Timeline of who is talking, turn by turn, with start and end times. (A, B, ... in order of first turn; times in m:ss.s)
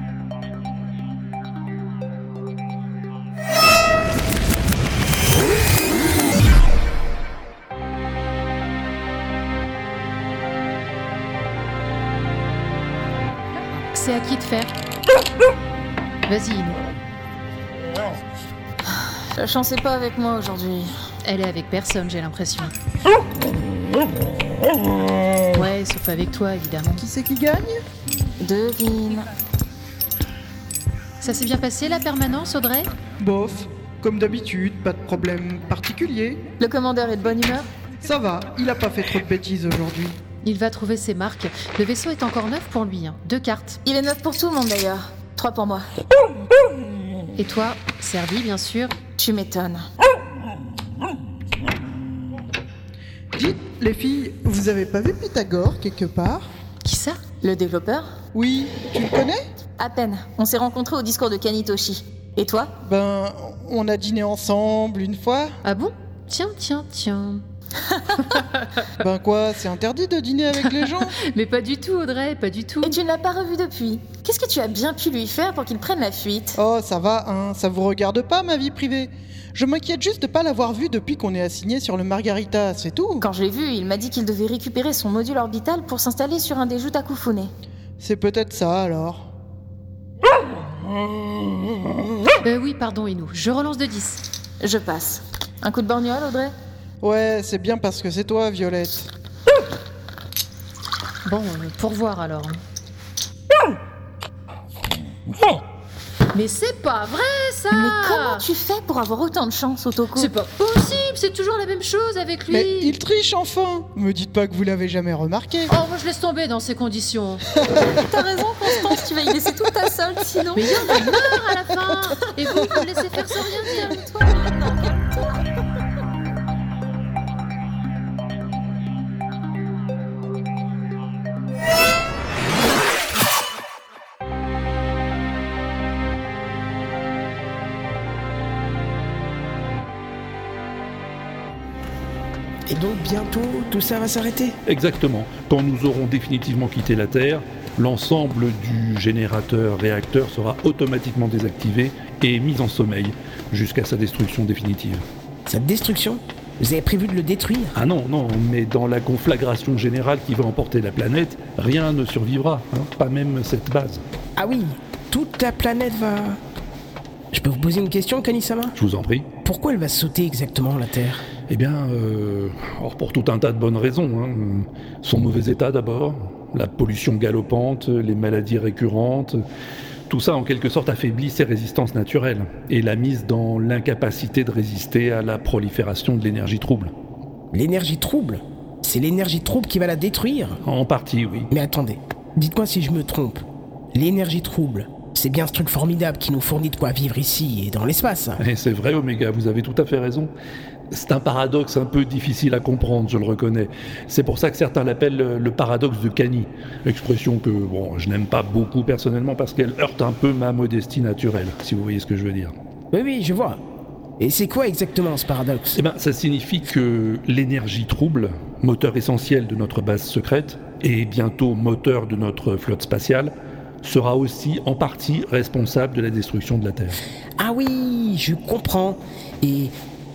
0:13.9-0:14.7 A
0:16.3-0:16.8 A
0:19.3-0:20.8 B
0:21.2-0:22.7 A
0:25.5-0:27.0 A
0:27.0-0:27.7 C
0:28.4-0:29.3 B
0:31.2-0:32.9 A
0:33.2-0:36.4 C
0:36.6-0:37.7 B
0:38.0-0:40.2 C
0:40.4-0:43.8 A
0:43.8-0:45.8 B
0:47.4-0:49.0 A
0:49.2-0:49.8 B
0:53.3-0:56.5 C
0:56.8-0:57.2 A
0:57.4-0:58.2 B
0:58.3-0:59.4 C
0:59.8-1:02.7 B
1:02.8-1:05.5 C
1:05.6-1:07.4 A
1:08.3-1:08.8 A
1:09.0-1:11.1 C
1:10.7-1:12.9 A
1:12.8-1:16.6 B
1:16.5-1:23.2 C
1:23.2-1:27.5 B
1:28.0-1:29.3 C
1:32.4-1:34.2 A
1:34.6-1:36.5 B
1:37.0-1:39.1 C
1:41.2-1:42.6 A
1:46.3-1:48.4 A
1:47.7-1:50.3 B
1:50.1-1:53.0 A
1:52.5-1:55.7 C
1:55.7-1:57.4 A
1:57.9-2:00.9 B
2:00.5-2:04.0 A
2:03.6-2:05.3 B
2:22.7-2:24.6 D
2:24.6-2:35.0 E
2:35.5-2:37.7 D
2:37.7-2:44.0 E
2:44.4-2:46.4 D
2:47.3-2:48.7 D
2:48.8-2:49.3 E
2:49.4-2:51.2 D
2:51.5-2:59.4 E
3:00.1-3:06.9 E
3:07.5-3:10.6 D
3:10.6-3:11.5 E
3:11.5-3:18.4 D
3:18.4-3:20.3 E
3:20.9-3:32.5 E
3:32.9-3:33.6 D
3:34.2-3:35.8 D
3:35.7-3:47.0 E
3:47.4-3:49.7 D